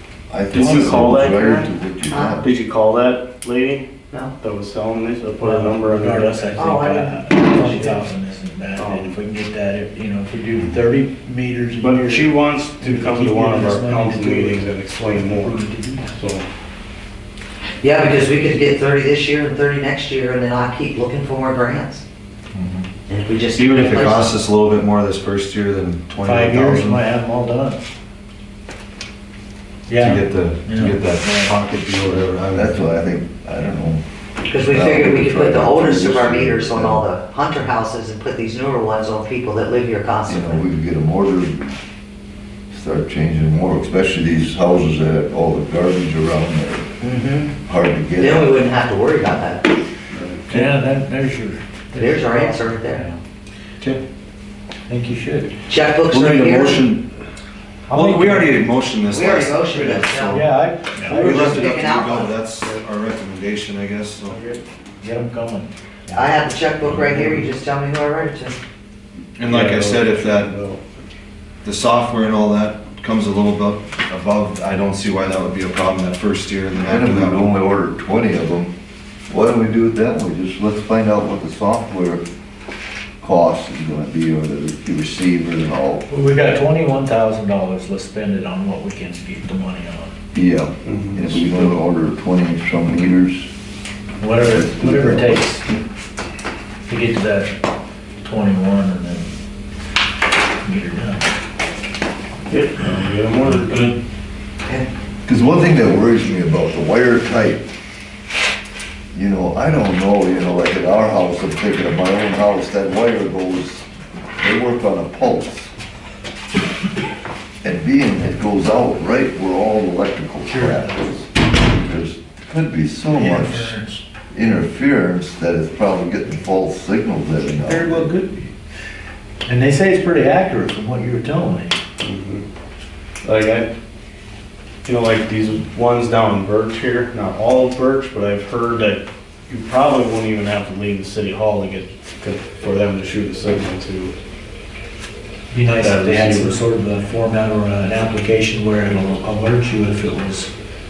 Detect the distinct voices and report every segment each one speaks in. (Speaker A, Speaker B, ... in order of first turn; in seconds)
Speaker A: 0.3-2.5, 32.5-34.0, 34.6-37.1, 40.3-41.8, 42.7-47.0, 47.6-48.6, 76.8-78.7, 79.3-82.2, 83.2-86.0, 90.3-93.5, 94.4-95.3, 105.2-107.6, 109.1-113.9, 114.4-115.7, 117.6-123.8, 124.3-128.1
Speaker B: 0.5-1.7, 2.4-3.9, 4.4-6.6, 8.8-9.2, 11.8-16.4, 50.1-50.5, 64.3-64.6, 66.8-67.4, 69.5-70.8, 90.8-91.5, 102.5-103.9, 132.0-132.4, 133.2-133.7, 134.8-144.1, 145.8-146.6
Speaker C: 2.1-2.4, 6.5-8.0, 17.8-22.0, 23.1-24.4, 34.5-40.6, 47.0-47.6, 48.2-49.7, 52.0-53.0, 55.7-56.9, 59.1-60.5, 61.1-62.4, 66.1-68.6
Speaker D: 5.4-16.1, 26.2-27.8, 29.9-31.6, 50.5-53.2, 54.9-55.6, 57.9-58.6, 60.3-61.7, 65.0-66.3, 86.1-90.1, 94.2-95.6, 96.9-97.5, 98.2-99.3, 100.6-101.2, 120.5-121.0, 123.1-124.0, 127.6-128.5, 129.5-131.8, 145.5-150.5
Speaker E: 23.6-27.0, 29.9-32.7, 56.1-57.1, 57.9-60.5, 61.0-64.4, 69.4-70.5, 71.6-77.5